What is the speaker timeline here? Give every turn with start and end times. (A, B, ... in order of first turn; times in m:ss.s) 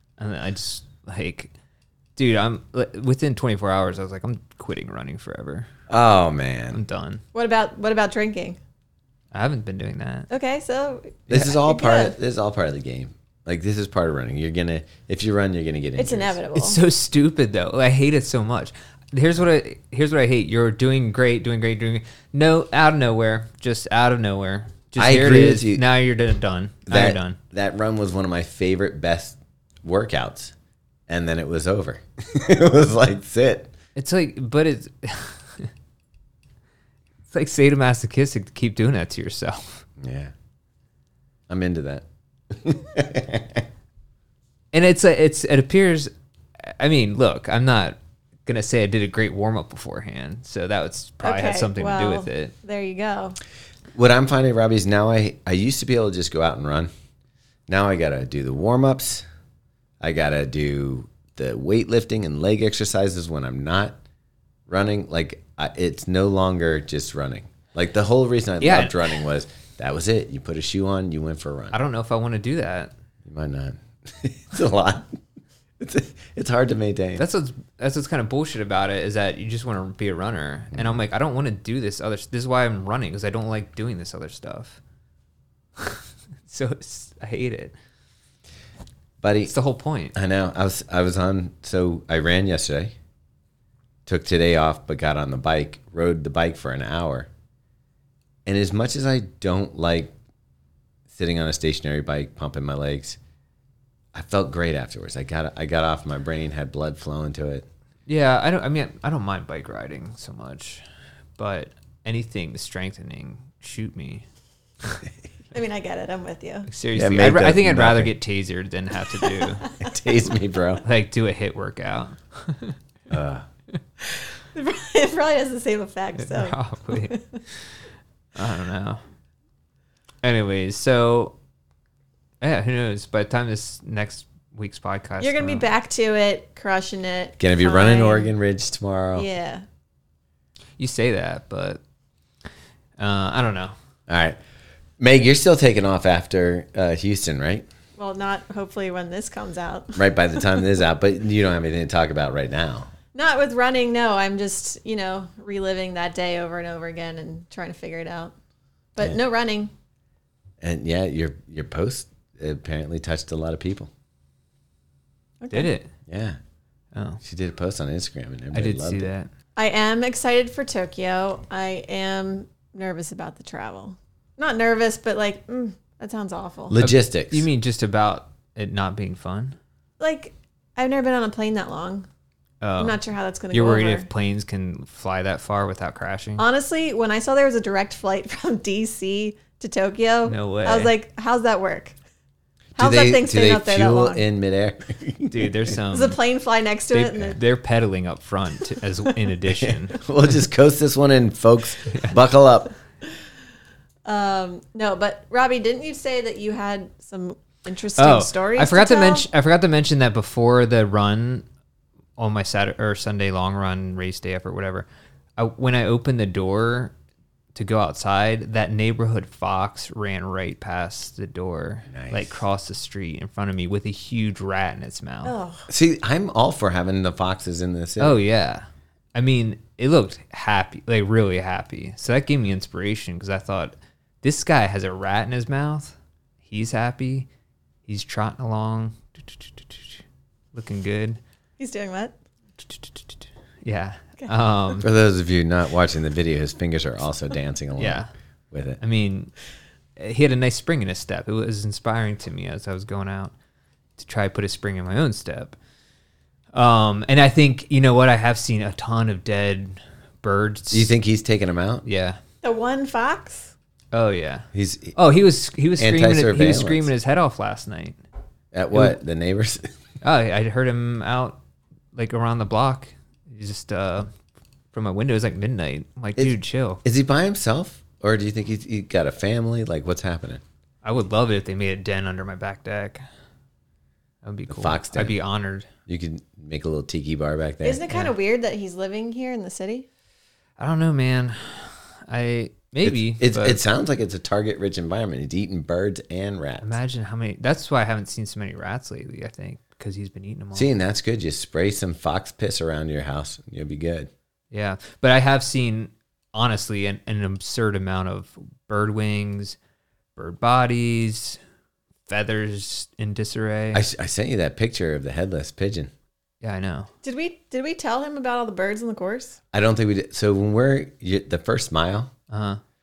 0:00.2-0:01.5 A
0:02.2-0:05.7 A
0:05.9-0:06.8 B
0:06.7-0:07.2 A
0:07.3-0:08.6 C
0:09.3-0:10.3 A
0:10.3-0:12.2 C
0:11.3-0:16.4 B
0:16.0-0:16.8 C
0:16.5-0:27.4 A
0:25.0-0:25.8 B
0:26.9-0:30.5 B
0:31.1-0:33.7 B
0:34.0-0:35.7 A
0:37.3-0:39.8 A
0:40.0-0:40.3 B
0:41.5-0:43.6 B
0:44.7-0:52.5 A
0:51.2-0:53.4 C
0:54.0-0:56.9 B
0:57.7-0:59.2 B
1:00.0-1:04.0 B
1:04.7-1:11.8 B
1:08.6-1:09.1 A
1:11.7-1:12.9 A
1:13.2-1:15.2 B
1:15.8-1:17.2 B
1:17.2-1:24.8 A
1:25.8-1:27.7 A
1:29.2-1:29.5 B
1:29.5-1:30.2 A
1:30.1-1:33.0 B
1:34.1-1:37.3 B
1:38.5-1:40.2 B
1:41.1-1:43.2 B
1:44.1-1:47.7 B
1:48.1-1:50.8 A
1:51.4-1:54.2 A
1:55.5-1:56.7 C
1:56.7-1:59.7 A
1:56.9-1:58.1 B
1:59.4-1:59.7 C
1:59.8-2:00.8 B
2:00.8-2:02.8 A
2:03.1-2:03.5 B
2:04.6-2:07.3 C
2:06.2-2:07.2 A
2:08.4-2:09.0 A
2:10.2-2:11.4 A
2:12.4-2:15.7 A
2:15.2-2:18.3 C
2:17.4-2:19.3 B
2:19.2-2:19.6 C
2:20.8-2:21.8 A
2:23.0-2:23.7 A
2:24.1-2:24.4 B
2:25.0-2:27.7 B
2:28.0-2:30.1 C
2:30.0-2:32.9 B
2:33.1-2:38.3 C
2:39.0-2:39.7 C
2:40.6-2:43.9 B
2:45.4-2:45.7 C
2:45.5-2:45.9 A
2:46.1-2:46.4 B
2:46.9-2:47.2 A
2:47.2-2:49.1 B
2:48.5-2:49.3 A
2:49.6-2:56.8 C
2:56.7-2:57.5 B
2:56.8-2:59.6 A
3:00.0-3:02.1 C
3:02.6-3:03.0 A
3:02.8-3:04.1 C
3:03.5-3:06.4 A
3:06.4-3:12.0 C
3:10.3-3:10.9 A
3:12.8-3:14.2 C
3:12.8-3:15.8 B
3:15.3-3:16.2 A
3:15.9-3:17.4 C
3:16.9-3:20.0 A
3:19.6-3:22.7 B
3:21.9-3:22.2 A
3:24.0-3:29.3 C
3:28.0-3:31.5 A
3:32.2-3:36.9 A
3:37.6-3:45.4 A
3:41.9-3:42.4 B
3:45.2-3:45.7 C
3:45.7-3:48.2 B
3:48.0-3:56.0 A
3:56.5-3:57.3 A
3:57.9-4:00.0 A
4:00.5-4:01.2 A
4:01.6-4:02.1 C
4:02.6-4:04.9 A
4:04.8-4:08.8 B
4:07.8-4:08.1 A
4:08.8-4:09.3 A
4:10.0-4:13.3 A
4:14.0-4:15.6 A
4:16.5-4:20.9 A
4:20.7-4:21.8 B
4:21.8-4:22.2 A
4:22.4-4:23.5 C
4:23.9-4:28.0 A
4:24.5-4:25.0 B
4:25.8-4:26.9 B
4:28.5-4:29.7 B
4:30.0-4:31.4 A
4:32.0-4:34.1 A
4:34.7-4:36.8 A
4:36.2-4:40.4 B
4:40.8-4:43.0 A
4:44.2-4:45.7 A
4:44.5-4:45.2 B
4:45.9-4:47.8 B
4:47.6-4:49.9 C
4:50.6-4:53.6 A
4:52.8-4:56.7 B
4:56.6-5:00.7 A
5:00.6-5:04.1 B
5:04.5-5:09.6 A
5:10.2-5:11.4 A
5:12.1-5:13.8 A
5:13.7-5:15.9 B
5:16.4-5:16.9 A
5:17.0-5:19.4 C
5:19.5-5:22.1 B
5:22.3-5:22.6 A